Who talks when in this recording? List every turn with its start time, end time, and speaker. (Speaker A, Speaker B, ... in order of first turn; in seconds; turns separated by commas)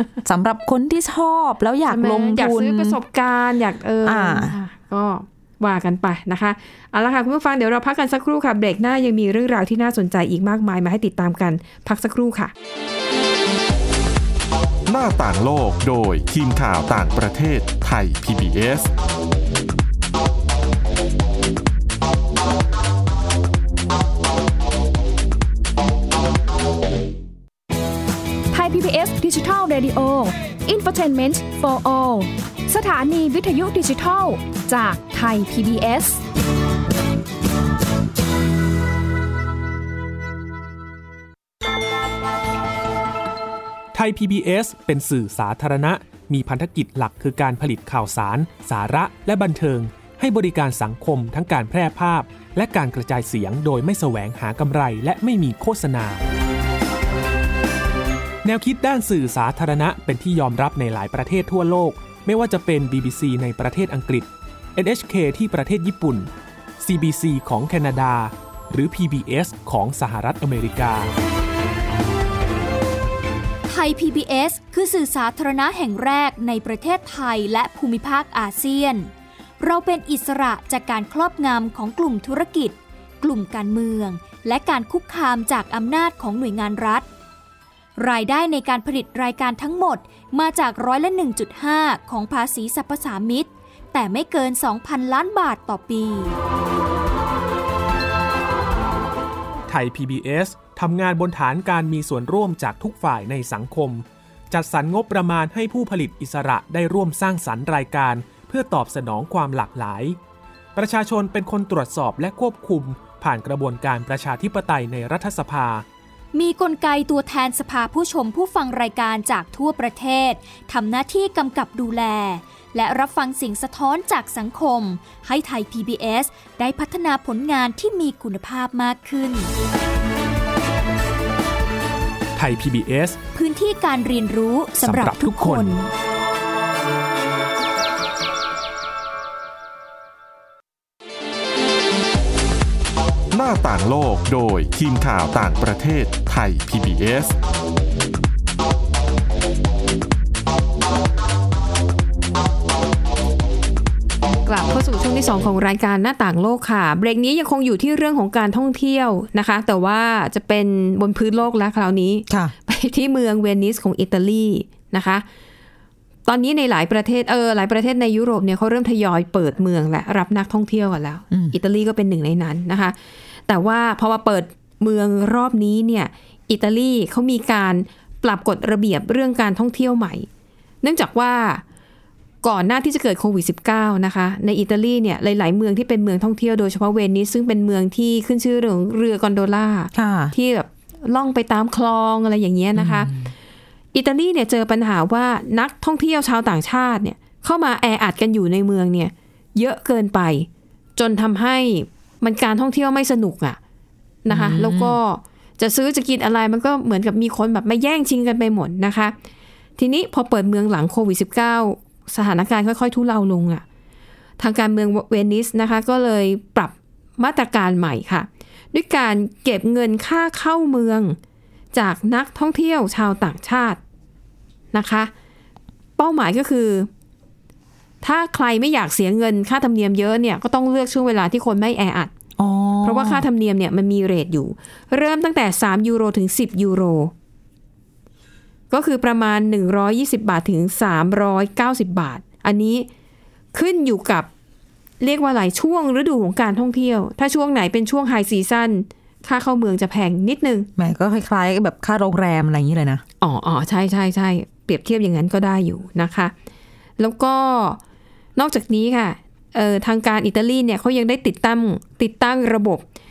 Speaker A: 0.2-3.0, Speaker B: 1.9-12.5, Speaker A: 4.0-4.6, Speaker C: 14.9-18.9, Speaker D: 28.5-36.2, Speaker E: 43.9-56.2, Speaker E: 58.4-71.1, Speaker F: 73.7-87.1, Speaker F: 88.0-96.4, Speaker E: 99.7-110.2, Speaker E: 110.8-115.8, Speaker F: 116.3-129.5, Speaker E: 132.3-133.2, Speaker F: 133.3-135.9, Speaker E: 134.8-135.8, Speaker C: 143.3-147.3, Speaker B: 154.5-165.2, Speaker A: 162.3-162.5, Speaker B: 166.3-172.9, Speaker A: 171.3-171.6, Speaker B: 173.5-180.3, Speaker B: 180.8-181.6, Speaker B: 182.4-193.1, Speaker A: 189.9-190.3, Speaker A: 192.8-193.3, Speaker B: 193.9-203.6, Speaker B: 204.2-209.2, Speaker A: 204.3-205.0, Speaker B: 209.8-213.6, Speaker B: 214.4-221.2, Speaker B: 221.7-223.8, Speaker B: 224.7-225.1, Speaker B: 226.0-226.9, Speaker B: 228.0-232.1, Speaker A: 232.4-233.3, Speaker B: 232.8-237.1, Speaker B: 238.7-242.9, Speaker B: 243.5-244.3, Speaker B: 245.0-250.7, Speaker A: 250.8-253.0, Speaker B: 253.2-256.3, Speaker B: 257.0-257.8, Speaker B: 258.4-262.8